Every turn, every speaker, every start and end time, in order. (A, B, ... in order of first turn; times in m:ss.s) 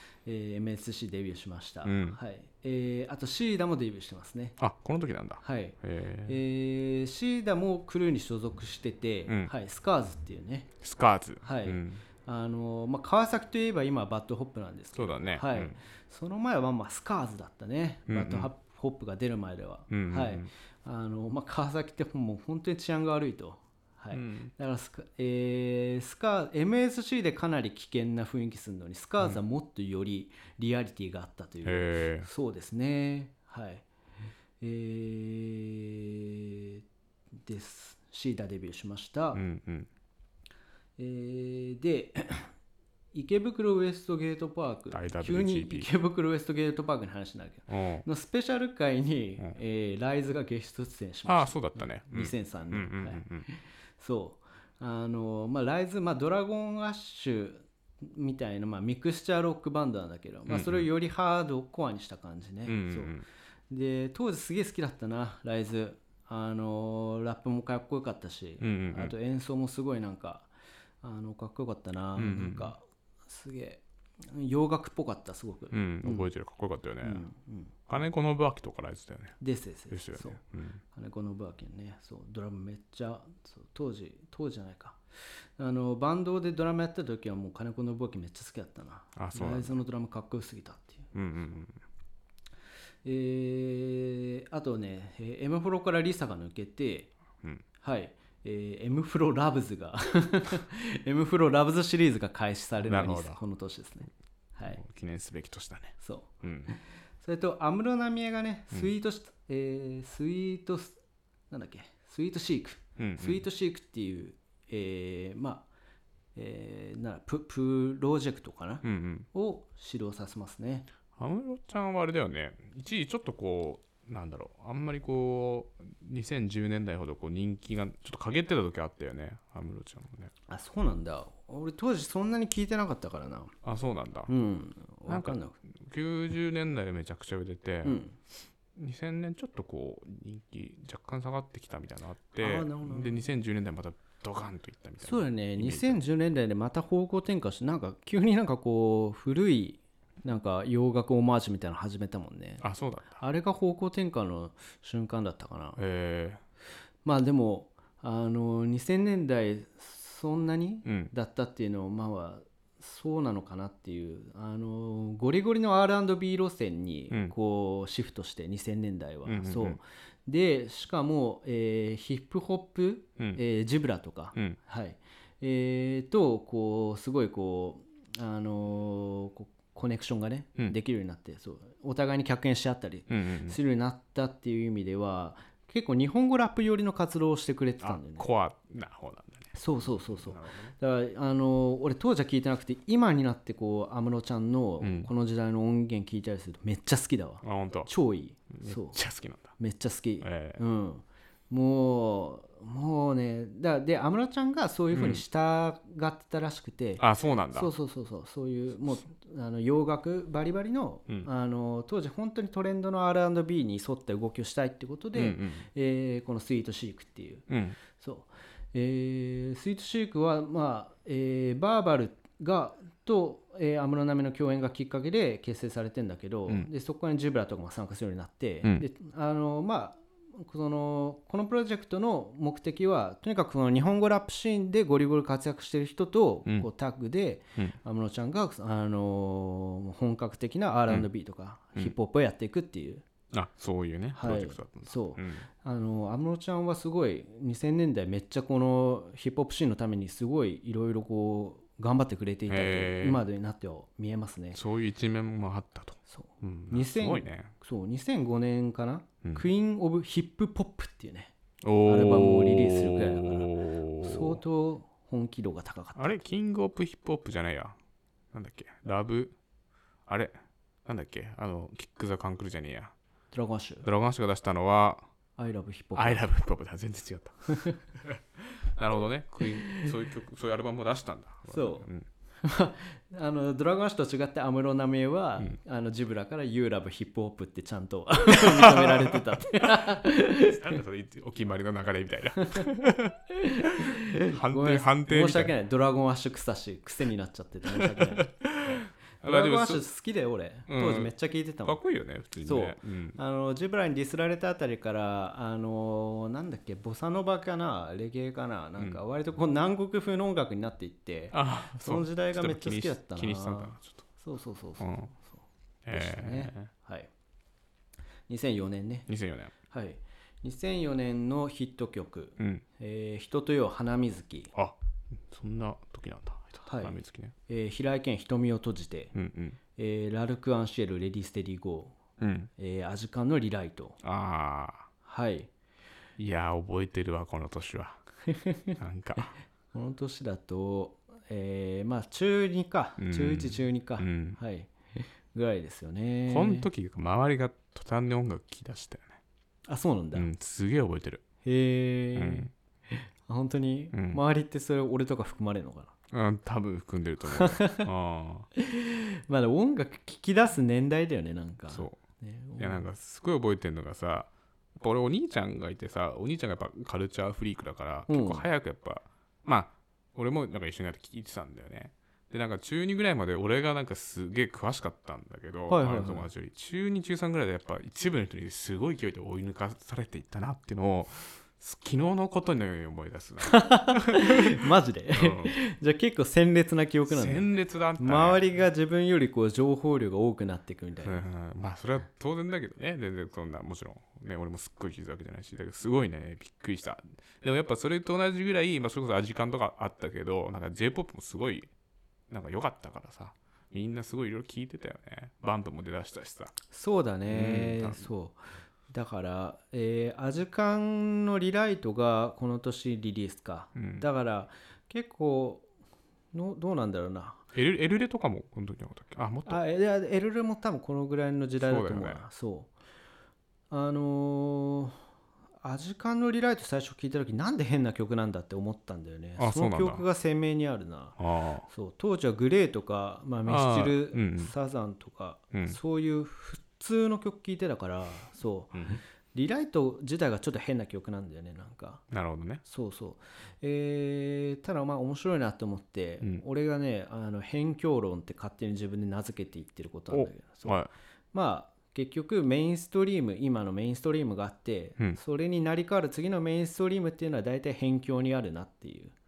0:00.3-0:04.6 A
0:01.8-0:02.2 B
0:04.6-0:06.4 B
0:05.4-0:10.7 A
0:10.8-0:12.0 B
0:11.4-0:33.9 A
0:15.0-0:15.8 B
0:18.1-0:18.5 B
0:19.9-0:20.5 B
0:24.1-0:24.5 B
0:31.6-0:32.3 B
0:34.6-0:36.8 A
0:37.4-0:39.4 A
0:39.3-0:39.9 B
0:41.0-0:42.5 A
0:43.1-1:03.2 A
0:44.9-0:45.9 B
0:47.7-0:48.1 B
0:51.3-0:53.5 B
1:00.5-1:00.9 B
1:02.7-1:03.2 B
1:03.7-1:10.5 A
1:08.6-1:09.1 B
1:11.0-1:16.3 A
1:12.2-1:12.7 B
1:15.7-1:17.2 B
1:17.0-1:17.8 A
1:17.9-1:19.4 B
1:19.4-1:25.0 A
1:19.9-1:20.8 B
1:25.6-1:31.1 A
1:29.2-1:29.8 B
1:31.1-1:31.8 B
1:33.0-1:37.1 A
1:37.8-1:44.8 A
1:42.8-1:43.4 B
1:44.7-1:46.7 B
1:46.0-1:51.0 A
1:51.5-1:55.7 A
1:53.0-1:53.4 B
1:56.4-2:00.9 A
1:58.8-1:59.3 B
2:01.2-2:10.3 B
2:10.5-2:13.5 A
2:13.6-2:14.3 B
2:14.3-2:15.6 A
2:15.1-2:18.0 B
2:17.8-2:18.2 A
2:18.8-2:26.0 B
2:22.4-2:23.2 A
2:25.0-2:32.6 A
2:32.6-2:33.2 B
2:33.2-2:35.8 A
2:35.8-2:36.4 B
2:37.0-3:08.3 A
2:40.8-2:41.1 B
2:49.3-2:49.8 B
3:03.1-3:03.6 B
3:07.8-3:10.8 B
3:09.6-3:19.0 A
3:14.8-3:15.1 B
3:17.4-3:17.9 B
3:18.5-3:19.5 B
3:19.6-4:03.0 A
3:20.2-3:20.6 B
3:24.9-3:25.2 B
3:27.0-3:27.7 B
3:35.2-3:35.7 B
3:37.5-3:37.8 B
4:03.3-4:05.5 B
4:04.2-4:14.6 A
4:12.5-4:13.2 B
4:14.5-4:17.5 B
4:16.1-4:21.3 A
4:21.6-4:24.4 B
4:21.8-4:26.2 A
4:26.0-4:27.8 B
4:28.3-4:29.4 B
4:30.1-4:32.9 B
4:33.3-4:33.9 A
4:33.8-4:35.0 B
4:35.4-4:36.2 A
4:36.0-4:42.1 B
4:37.5-4:37.8 A
4:39.4-4:39.9 A
4:41.5-4:41.9 A
4:42.4-4:50.8 A
4:48.3-4:55.6 B
4:52.4-4:52.7 A
4:53.3-4:58.3 A
4:57.7-4:59.8 B
4:59.2-5:01.8 A
5:00.7-5:01.1 B
5:01.6-5:03.2 B
5:02.4-5:17.1 A
5:11.3-5:14.1 B
5:14.8-5:15.1 B
5:15.8-5:16.7 B
5:18.3-5:19.1 A
5:19.1-5:19.5 B
5:19.7-5:24.5 A
5:22.4-5:22.6 B
5:24.5-5:27.4 B
5:26.7-5:29.1 A
5:29.1-5:29.6 B
5:29.8-5:32.0 A
5:32.2-5:32.5 B
5:32.6-5:34.0 A
5:34.0-5:34.9 B
5:35.0-5:35.5 A
5:36.2-5:38.0 B
5:38.3-5:46.7 A
5:38.8-5:39.4 B
5:43.0-5:44.4 B
5:46.3-5:49.2 B
5:49.7-5:50.3 A
5:50.1-5:51.2 B
5:51.4-5:55.9 A
5:52.2-5:52.5 B
5:53.9-5:54.2 B
5:56.1-5:58.5 B
5:57.3-5:57.9 A
5:58.6-6:02.9 A
6:01.7-6:02.0 B
6:02.6-6:25.6 B
6:08.1-6:08.5 A
6:15.7-6:16.3 A
6:23.4-6:31.2 A
6:27.1-6:28.5 B
6:31.0-6:41.7 B
6:42.3-6:46.5 B
6:46.7-6:55.7 A
6:47.3-6:48.1 B
6:53.8-6:54.0 B
6:56.3-6:57.4 A
6:57.5-6:59.6 B
6:59.5-7:02.7 A
7:01.6-7:02.2 B
7:03.7-7:05.0 A
7:05.6-7:22.0 A
7:09.4-7:10.0 B
7:11.2-7:11.7 B
7:13.5-7:14.5 B
7:15.5-7:15.8 B
7:18.7-7:19.0 B
7:22.1-7:22.6 B
7:22.6-7:30.8 A
7:30.1-7:30.9 B
7:31.3-7:39.1 A